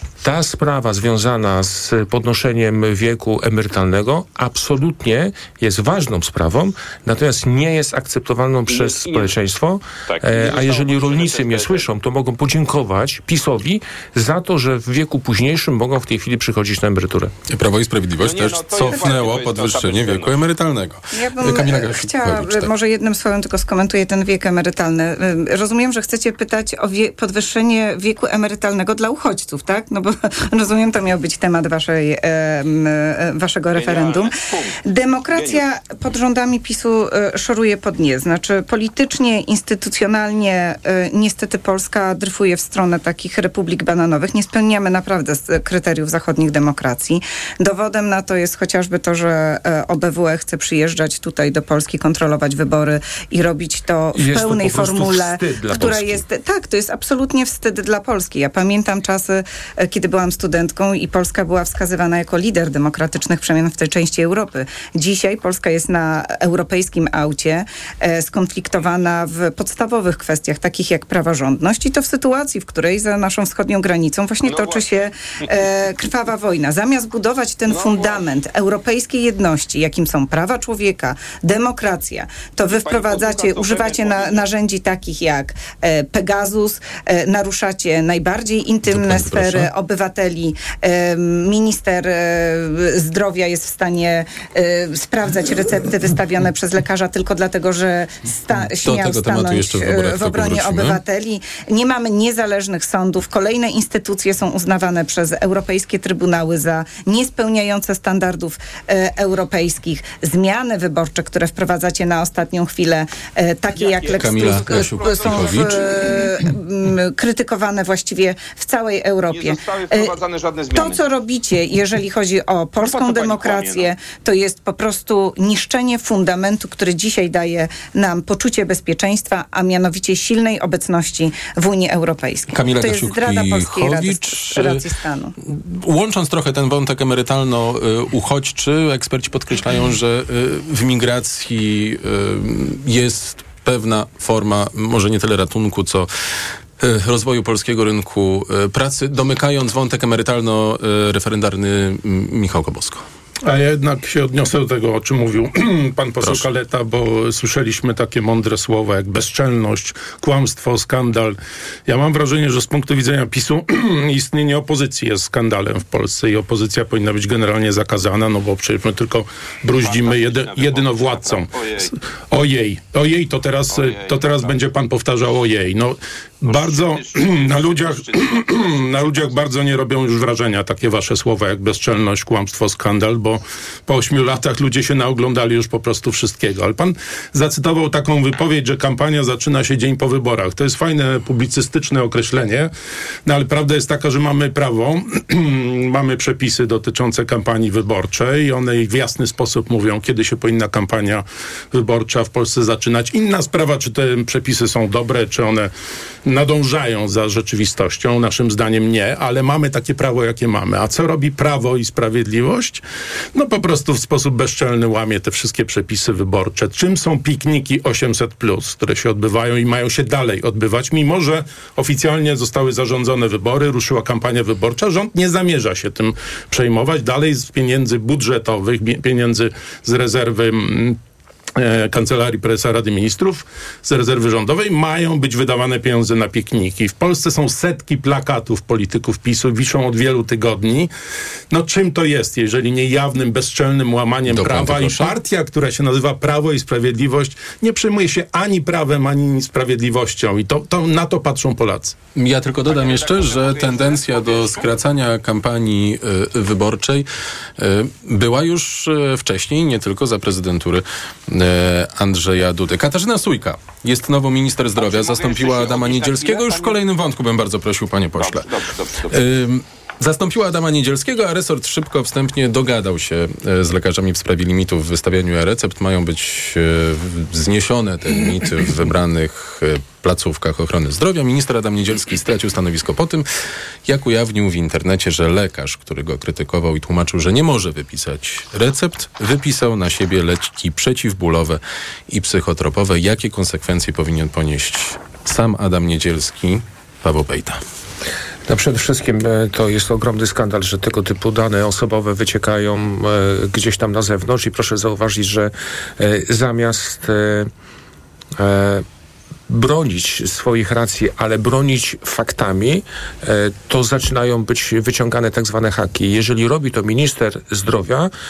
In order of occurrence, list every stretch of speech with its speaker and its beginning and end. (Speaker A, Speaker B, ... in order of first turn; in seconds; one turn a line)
Speaker A: 0.2-17.3
Speaker B: 8.7-9.3
Speaker B: 10.1-11.9
Speaker C: 17.5-22.7
Speaker B: 18.2-20.4
Speaker D: 21.1-120.1
Speaker B: 33.7-35.6
Speaker A: 54.1-56.2
Speaker B: 74.4-75.0
Speaker B: 77.7-78.3
Speaker B: 82.7-84.5
Speaker C: 88.9-89.7
Speaker C: 98.8-101.0
Speaker B: 113.8-116.3
Speaker C: 114.2-115.8
Speaker B: 119.3-121.0
Speaker D: 120.7-135.3
Speaker B: 122.8-123.9
Speaker C: 132.5-134.8
Speaker C: 135.4-146.1
Speaker C: 146.8-153.0
Speaker E: 153.4-192.7
Speaker B: 169.8-171.9
Speaker B: 173.7-174.6
Speaker B: 176.4-179.4
Speaker E: 193.3-205.7
Speaker E: 206.2-212.8
Speaker E: 213.3-231.0
Speaker E: 231.6-240.9
Speaker E: 241.5-252.0
Speaker C: 244.3-245.1
Speaker C: 252.2-257.1
Speaker B: 252.7-254.7
Speaker C: 257.6-268.5
Speaker B: 264.8-266.8
Speaker B: 268.2-269.2
Speaker C: 269.1-283.3
Speaker C: 283.9-297.6
Speaker A: 298.5-307.5
Speaker A: 308.4-308.9
Speaker A: 309.5-318.1